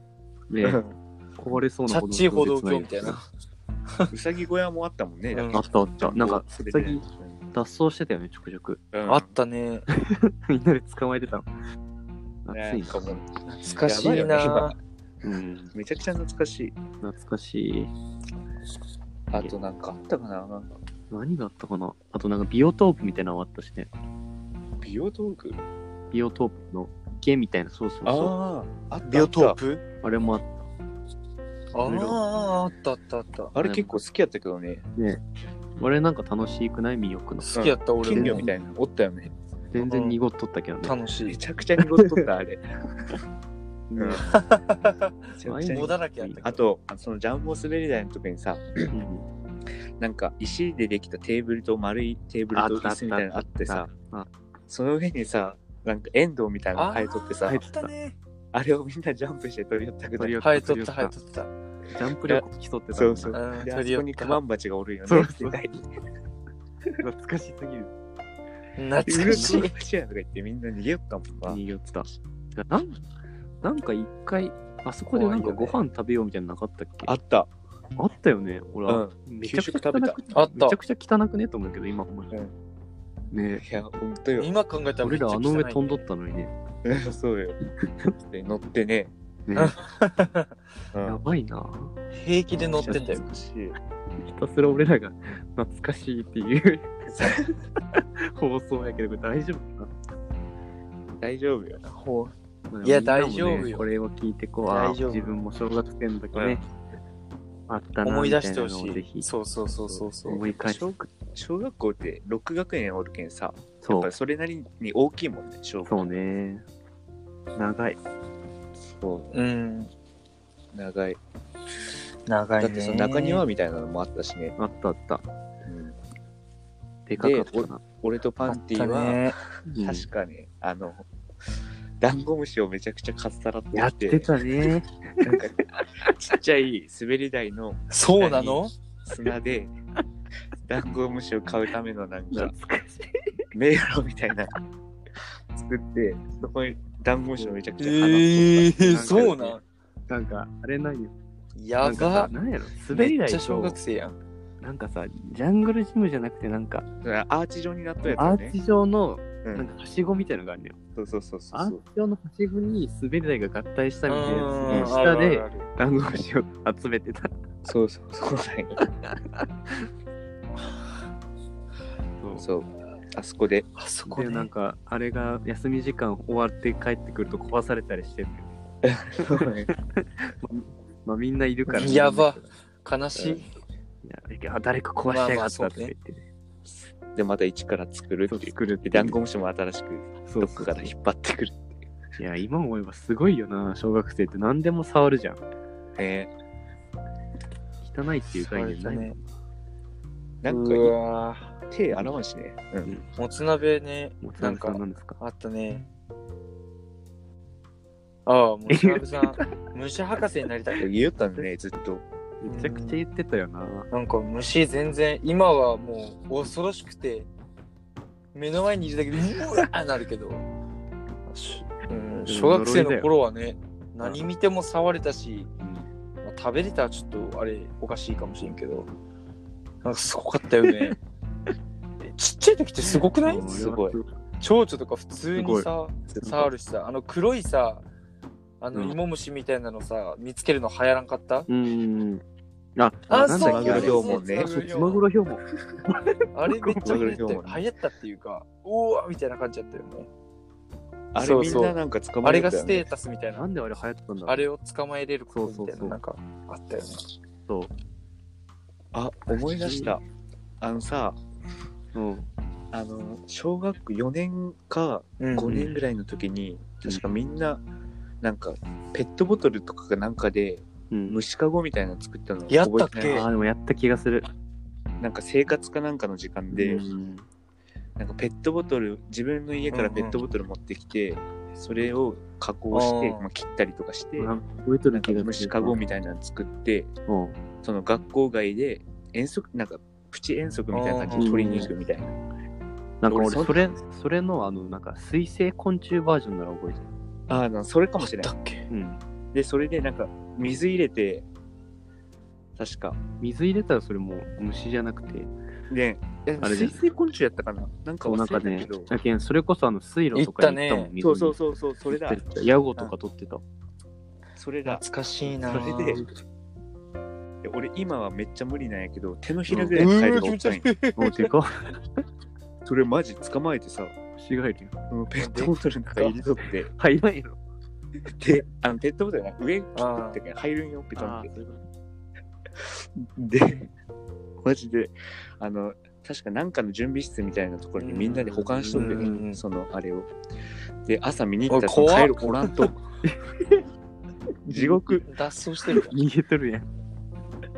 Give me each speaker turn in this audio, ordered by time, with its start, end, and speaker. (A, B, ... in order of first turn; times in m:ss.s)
0:00.5-0:00.8 A
0:00.6-0:00.9 B
0:01.4-0:03.2 A
0:01.9-0:03.2 C
0:04.1-0:07.4 B
0:05.3-0:05.6 C
0:05.5-0:08.8 A
0:08.9-0:09.3 B
0:09.1-0:09.9 C
0:09.9-0:11.5 A
0:12.5-0:13.0 A
0:12.5-0:13.3 B
0:13.5-0:14.8 C
0:13.8-0:14.8 B
0:15.2-0:15.7 A
0:15.7-0:16.8 B
0:17.0-0:17.9 A
0:19.3-0:20.7 B
0:21.1-0:23.9 A
0:24.8-0:25.6 B
0:26.1-0:28.4 A
0:28.0-0:29.6 B
0:29.0-0:29.8 C
0:30.0-0:30.6 A
0:31.7-0:33.5 C
0:31.9-0:32.2 A
0:33.5-0:34.8 B
0:33.6-0:34.0 A
0:35.0-0:35.2 A
0:35.8-0:37.5 A
0:37.4-0:38.5 C
0:37.5-0:39.3 B
0:38.1-0:38.5 A
0:39.7-0:40.9 A
0:39.8-0:40.2 C
0:40.8-0:41.4 C
0:41.3-0:42.6 B
0:41.8-0:42.2 A
0:43.9-0:44.4 A
0:44.0-0:44.4 B
0:44.3-0:46.6 C
0:45.4-0:48.9 B
0:45.5-0:46.5 A
0:48.9-0:49.2 A
0:50.0-0:53.9 B
0:52.5-0:54.3 A
0:54.7-0:57.6 B
0:56.8-0:58.2 C
0:57.4-0:57.9 A
0:58.5-1:00.4 B
1:00.2-1:01.2 A
1:00.4-1:01.5 C
1:01.9-1:03.4 A
1:02.3-1:05.8 B
1:03.3-1:04.4 C
1:05.1-1:05.8 A
1:07.0-1:07.9 A
1:08.8-1:09.7 C
1:09.0-1:11.6 B
1:09.2-1:09.7 A
1:11.5-1:13.0 A
1:13.6-1:17.1 A
1:15.1-1:15.8 C
1:17.0-1:17.5 B
1:18.0-1:22.3 A
1:18.9-1:20.2 B
1:20.3-1:20.8 C
1:23.3-1:23.6 A
1:23.6-1:24.6 B
1:24.4-1:26.0 C
1:25.0-1:26.5 A
1:26.8-1:27.6 B
1:28.2-1:29.1 B
1:29.5-1:29.8 A
1:29.6-1:30.5 C
1:30.9-1:31.2 B
1:31.0-1:32.0 A
1:32.1-1:33.2 C
1:32.7-1:33.8 B
1:32.8-1:33.3 A
1:34.2-1:39.9 A
1:41.2-1:41.8 B
1:41.9-1:42.3 C
1:42.7-1:46.6 A
1:42.8-1:43.9 C
1:44.7-1:45.3 C
1:46.3-1:46.6 B
1:47.7-1:49.3 A
1:48.0-1:50.4 C
1:50.3-1:51.0 A
1:50.6-1:56.1 B
1:53.8-1:54.1 A
1:55.9-1:56.6 A
1:57.6-1:58.0 A
1:58.8-1:59.3 B
1:59.3-1:59.9 C
2:00.7-2:01.2 B
2:02.3-2:03.4 C
2:02.6-2:04.6 B
2:04.6-2:05.2 A
2:05.7-2:06.0 B
2:07.1-2:07.8 A
2:07.2-2:11.1 B
2:08.5-2:09.4 C
2:09.7-2:10.1 A
2:12.0-2:14.4 B
2:13.7-2:15.8 A
2:15.2-2:19.7 B
2:17.9-2:18.7 C
2:20.7-2:22.5 B
2:22.3-2:23.2 A
2:23.5-2:24.5 B
2:25.5-2:29.3 B
2:27.8-2:29.6 C
2:28.8-2:31.1 A
2:31.6-2:32.3 C
2:31.8-2:33.8 A
2:32.9-2:34.2 C
2:34.6-2:36.9 A
2:37.0-2:38.6 B
2:38.1-2:40.8 A
2:39.4-2:39.7 B
2:41.0-2:41.8 B
2:41.5-2:47.3 A
2:44.1-2:45.7 C
2:44.7-2:45.0 B
2:47.6-2:48.8 B
2:48.8-2:49.9 A
2:52.2-2:52.4 A
2:52.4-2:53.7 B
2:53.8-2:54.5 C
2:54.1-2:58.5 A
2:58.8-2:59.7 B
2:59.2-3:02.5 A
3:01.7-3:03.5 C
3:03.2-3:03.4 B
3:04.0-3:06.2 A
3:05.0-3:05.9 C
3:07.2-3:11.8 B
3:08.3-3:09.2 A
3:10.3-3:10.9 A
3:12.2-3:15.4 A
3:16.0-3:16.3 B
3:17.8-3:19.2 A
3:18.4-3:19.2 C
3:20.4-3:21.0 B
3:20.5-3:21.6 C
3:21.7-3:22.9 B
3:23.2-3:25.9 C
3:24.2-3:25.2 A
3:28.3-3:30.9 C
3:28.7-3:29.5 A
3:30.8-3:32.0 B
3:32.4-3:33.9 A
3:32.5-3:33.0 C
3:33.9-3:37.3 C
3:38.3-3:40.4 C
3:41.3-3:45.5 C
3:42.3-3:43.1 A
3:46.2-3:48.9 C
3:49.8-3:51.0 C
3:50.6-3:50.9 A
3:52.0-3:53.6 C
3:52.9-3:54.1 A
3:53.5-3:54.0 B
3:54.4-3:57.9 C
3:55.4-3:55.7 A
3:56.2-3:56.5 A
3:58.6-4:01.5 C
4:01.5-4:02.2 A
4:02.8-4:07.1 A
4:03.1-4:05.0 C
4:03.4-4:04.6 B
4:06.3-4:10.1 C
4:06.8-4:07.6 B
4:11.1-4:12.9 B
4:11.2-4:13.5 C
4:13.3-4:14.5 A
4:14.3-4:17.0 C
4:15.3-4:16.0 A
4:18.9-4:20.0 B
4:19.6-4:20.0 A
4:20.6-4:21.2 B
4:22.0-4:22.3 A
4:22.7-4:27.6 B
4:25.2-4:25.7 C
4:25.5-4:25.8 A
4:28.2-4:33.2 B
4:30.9-4:31.2 A
4:32.5-4:33.2 C
4:33.1-4:34.3 A
4:35.0-4:36.8 B
4:36.5-4:37.3 A
4:38.0-4:44.3 B
4:39.7-4:40.2 C
4:42.7-4:43.2 C
4:44.2-4:45.8 A
4:44.9-4:46.9 B
4:47.1-4:47.4 A
4:47.6-4:52.2 B
4:50.7-4:51.3 C
4:51.2-4:51.7 A
4:53.0-4:56.9 A
4:53.1-4:53.6 B
4:57.3-4:58.3 B
4:58.0-4:58.7 C
4:58.7-4:59.0 A
4:59.3-5:01.3 B
5:02.6-5:03.0 B
5:03.2-5:05.3 A
5:05.7-5:08.9 B
5:06.4-5:06.8 A
5:08.0-5:11.4 A
5:10.2-5:10.9 C
5:11.0-5:12.2 B
5:11.9-5:13.4 A
5:14.4-5:16.0 B
5:14.7-5:16.0 C
5:17.4-5:20.7 B
5:19.5-5:20.0 A
5:19.8-5:21.3 C
5:21.0-5:21.7 A
5:22.6-5:24.0 B
5:24.2-5:24.7 A
5:24.9-5:26.7 B
5:25.2-5:26.2 C
5:26.7-5:27.4 A
5:28.2-5:31.3 B
5:29.8-5:30.2 C
5:31.0-5:31.6 A
5:32.6-5:33.7 B
5:34.4-5:40.1 B
5:37.8-5:39.4 C
5:38.3-5:39.2 A
5:40.8-5:42.8 B
5:41.5-5:42.7 C
5:43.0-5:43.6 A
5:44.5-5:45.0 B
5:44.5-5:46.0 C
5:44.5-5:44.8 A
5:45.8-5:46.7 A